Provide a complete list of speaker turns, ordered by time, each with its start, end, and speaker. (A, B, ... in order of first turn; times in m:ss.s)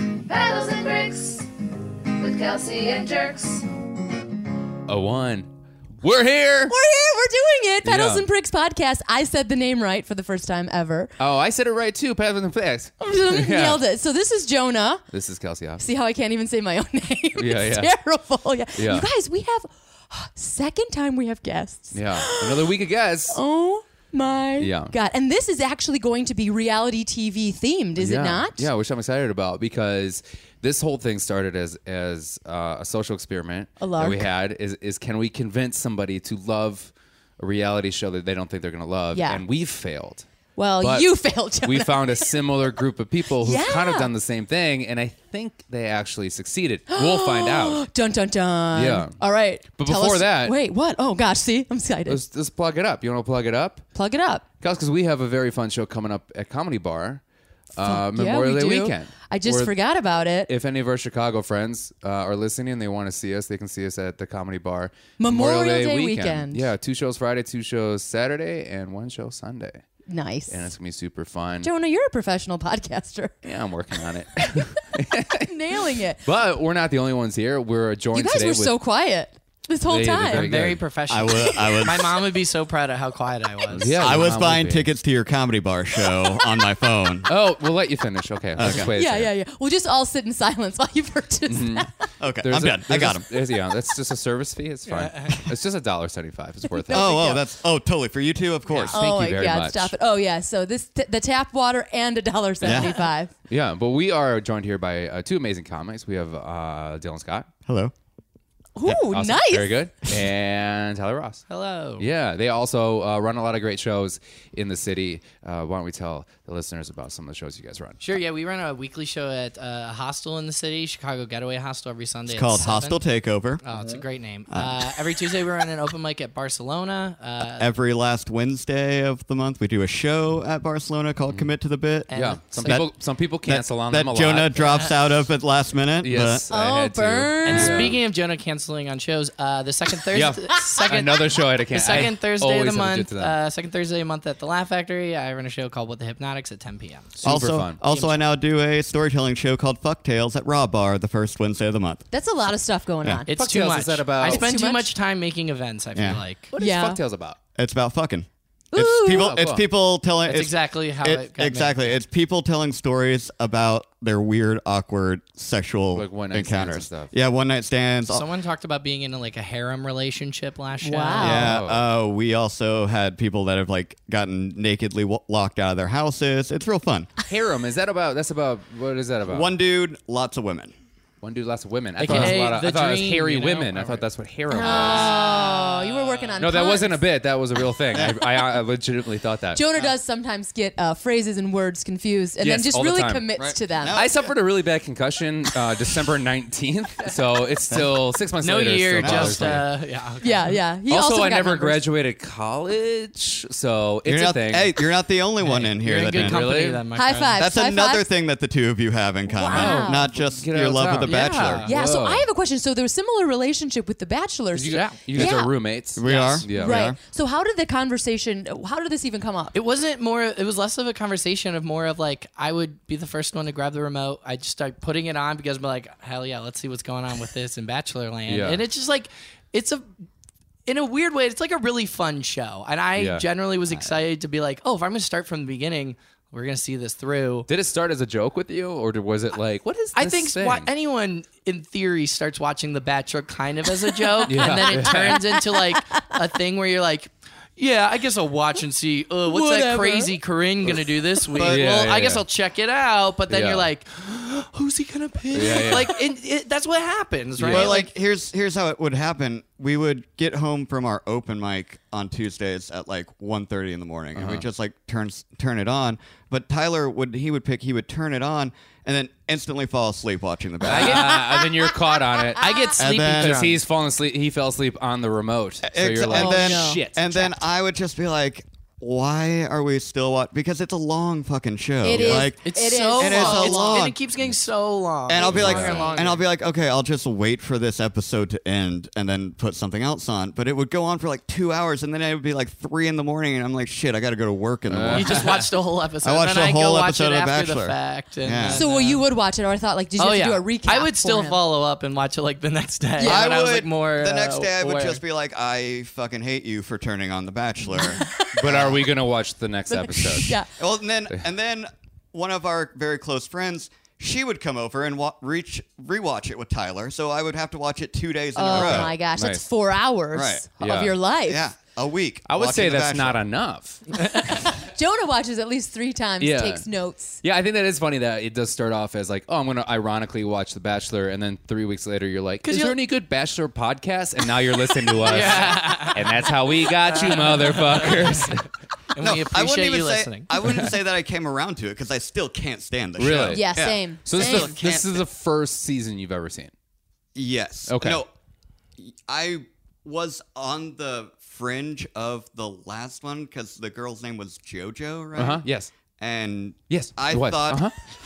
0:00.3-0:01.5 A
0:02.2-0:03.7 A
0:04.9-0:06.8 B
0:06.7-0:11.1 C
0:07.8-0:08.2 B
0:11.2-0:13.8 B
0:13.0-0:15.0 C
0:15.1-0:15.8 B
0:15.8-0:22.7 C
0:17.4-0:17.9 B
0:18.8-0:19.1 B
0:21.9-0:23.4 B
0:23.3-0:28.7 C
0:24.6-0:24.9 B
0:28.0-0:40.3 B
0:33.8-0:34.3 C
0:39.1-0:39.4 C
0:40.6-0:42.4 C
0:40.8-0:47.8 B
0:43.4-0:44.1 C
0:46.9-0:52.2 C
0:48.7-0:49.2 B
0:49.8-0:50.6 B
0:52.1-0:53.8 B
0:54.0-0:54.4 C
0:54.6-0:57.2 B
0:57.8-0:59.7 B
0:57.8-1:00.5 C
1:00.5-1:09.8 B
1:05.2-1:06.7 C
1:10.1-1:10.7 C
1:10.5-1:11.7 B
1:11.6-1:13.4 C
1:13.4-1:15.5 B
1:15.4-1:16.2 C
1:16.2-1:18.8 B
1:18.1-1:20.5 C
1:19.9-1:20.8 B
1:20.3-1:24.2 D
1:21.1-1:22.2 E
1:23.7-1:24.9 B
1:24.0-1:27.3 E
1:27.3-1:29.3 B
1:28.6-1:28.9 E
1:28.6-1:32.1 C
1:31.5-1:31.9 B
1:32.2-1:33.3 E
1:32.4-1:37.3 B
1:35.3-1:35.5 E
1:36.7-1:37.5 C
1:36.9-1:39.0 E
1:38.8-1:39.9 B
1:38.9-1:43.3 C
1:42.6-1:43.0 E
1:43.5-1:47.5 B
1:47.7-1:47.9 E
1:48.8-1:49.9 C
1:49.1-1:51.4 B
1:51.5-1:52.1 D
1:52.0-1:58.0 B
1:58.0-2:03.0 D
2:02.3-2:03.6 E
2:03.6-2:07.7 D
2:04.5-2:05.0 E
2:07.5-2:16.5 E
2:12.1-2:12.8 D
2:12.1-2:14.8 B
2:14.7-2:15.0 D
2:16.0-2:18.0 B
2:16.5-2:17.8 C
2:17.4-2:27.2 D
2:20.1-2:23.4 B
2:27.2-2:27.8 B
2:27.2-2:32.1 E
2:27.8-2:28.2 D
2:32.1-2:33.3 C
2:33.3-2:36.5 D
2:33.3-2:34.4 B
2:34.2-2:34.9 C
2:36.0-2:36.2 E
2:36.5-2:37.4 B
2:36.6-2:37.0 C
2:37.6-2:48.2 E
2:38.7-2:39.4 C
2:39.1-2:39.6 B
2:40.3-2:42.0 D
2:46.0-2:47.1 B
2:48.1-2:51.4 D
2:50.8-2:51.5 C
2:51.2-2:57.1 E
2:51.3-2:51.8 B
2:57.2-2:59.6 B
2:59.3-3:00.7 E
3:01.2-3:05.2 B
3:02.0-3:06.4 D
3:02.1-3:02.4 C
3:04.5-3:07.0 C
3:06.4-3:09.6 B
3:07.9-3:08.2 E
3:09.5-3:14.0 C
3:12.4-3:13.3 B
3:13.4-3:14.4 E
3:13.9-3:19.6 B
3:17.7-3:18.1 E
3:18.4-3:20.6 D
3:19.0-3:19.6 E
3:20.2-3:21.8 C
3:20.9-3:24.9 B
3:24.0-3:26.6 E
3:25.4-3:27.4 D
3:26.0-3:26.8 B
3:26.9-3:28.0 C
3:27.4-3:31.7 E
3:29.3-3:30.1 C
3:29.4-3:32.3 B
3:31.0-3:31.7 D
3:31.6-3:35.6 C
3:34.5-3:36.8 B
3:34.7-3:35.0 D
3:35.2-3:35.4 E
3:36.0-3:37.0 E
3:36.0-3:36.4 D
3:36.6-3:39.6 C
3:39.5-3:49.9 D
3:48.3-3:48.6 B
3:50.7-3:57.5 D
3:53.0-3:53.9 B
3:57.5-4:00.7 B
4:00.0-4:17.9 D
4:04.1-4:06.2 C
4:04.2-4:05.2 B
4:09.3-4:10.1 C
4:11.3-4:11.6 E
4:11.4-4:12.2 B
4:13.3-4:13.7 B
4:15.3-4:16.0 B
4:17.4-4:17.7 B
4:17.4-4:31.2 E
4:24.2-4:24.4 B
4:30.6-4:37.3 B
4:30.8-4:32.8 C
4:32.4-4:33.6 D
4:32.8-4:33.5 E
4:35.6-4:44.0 E
4:36.1-4:37.0 C
4:41.8-4:43.8 C
4:41.9-4:46.2 D
4:45.1-4:55.5 E
4:45.2-4:45.9 B
4:54.7-4:55.4 B
4:54.9-4:59.0 D
4:56.0-4:58.6 E
4:58.5-5:01.4 C
5:00.0-5:05.0 D
5:03.0-5:03.3 C
5:03.0-5:08.9 E
5:07.7-5:08.4 C
5:08.3-5:10.4 B
5:09.7-5:10.5 C
5:10.5-5:18.9 E
5:18.4-5:21.5 C
5:18.5-5:19.4 B
5:20.1-5:20.5 E
5:20.6-5:21.0 B
5:21.3-5:23.2 E
5:22.3-5:23.9 B
5:24.5-5:27.2 C
5:26.2-5:26.6 B
5:27.2-5:38.5 B
5:32.4-5:32.8 D
5:35.0-5:40.4 D
5:39.0-5:45.0 E
5:40.4-5:40.7 B
5:43.0-5:43.5 B
5:43.3-5:44.6 C
5:44.0-5:46.5 B
5:47.2-5:48.1 E
5:47.7-5:48.0 B
5:48.8-5:55.4 E
5:55.2-5:55.7 B
5:56.0-5:57.7 E
5:56.7-5:57.8 B